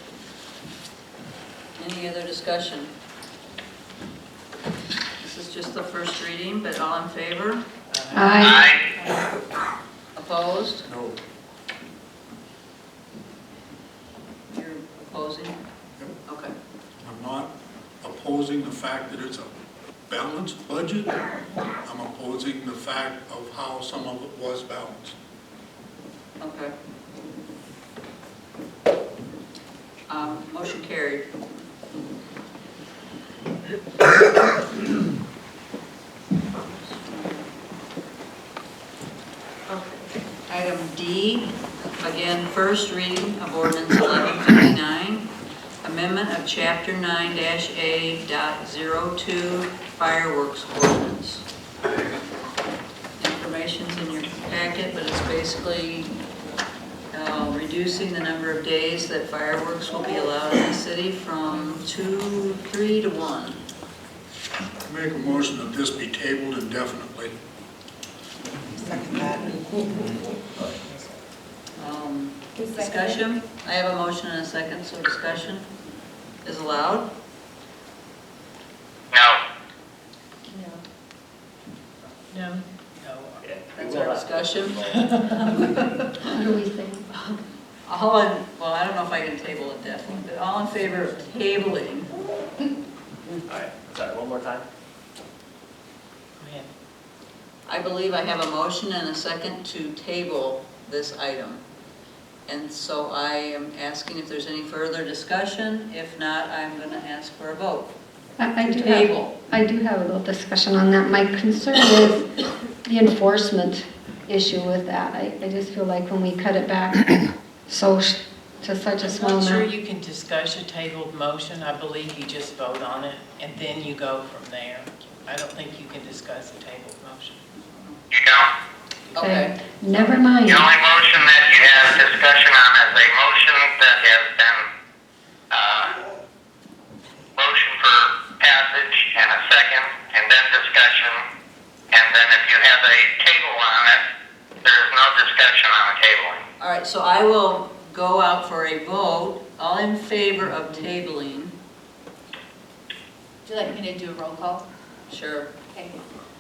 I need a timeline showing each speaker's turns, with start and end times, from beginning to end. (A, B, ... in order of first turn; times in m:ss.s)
0:01.8-0:02.9 A
0:05.2-0:07.6 A
0:07.9-0:09.3 B
0:08.1-0:08.6 C
0:08.4-0:08.9 D
0:10.2-0:10.8 A
0:10.9-0:11.2 E
0:14.5-0:15.6 A
0:16.2-0:16.5 A
0:17.0-0:19.5 E
0:20.1-0:21.1 E
0:21.8-0:25.2 E
0:26.4-0:26.7 A
0:30.1-0:31.3 A
0:36.8-0:37.5 A
0:39.7-0:45.3 A
0:45.8-0:51.4 A
0:53.2-0:56.2 A
0:57.1-1:03.6 A
1:04.8-1:07.3 E
1:08.8-1:09.8 F
1:11.8-1:15.6 A
1:16.4-1:17.1 A
1:19.1-1:19.4 D
1:22.3-1:23.5 B
1:23.4-1:25.1 G
1:23.8-1:24.8 A
1:24.8-1:25.6 B
1:25.4-1:25.6 A
1:26.3-1:27.1 C
1:27.8-1:32.1 A
1:33.5-1:34.6 G
1:36.4-1:36.7 B
1:37.7-1:41.6 A
1:42.5-1:47.9 A
1:48.4-1:52.3 C
1:48.6-1:49.3 A
1:52.8-1:57.2 C
1:57.7-1:59.6 C
1:59.0-2:07.4 B
2:08.1-2:08.5 D
2:09.1-2:09.5 A
2:09.2-2:10.6 C
2:10.4-2:14.7 D
2:15.5-2:16.0 D
2:17.4-2:21.2 D
2:21.9-2:24.0 D
2:24.6-2:26.4 D
2:26.6-2:31.5 A
2:33.4-2:34.6 F
2:35.1-2:35.5 A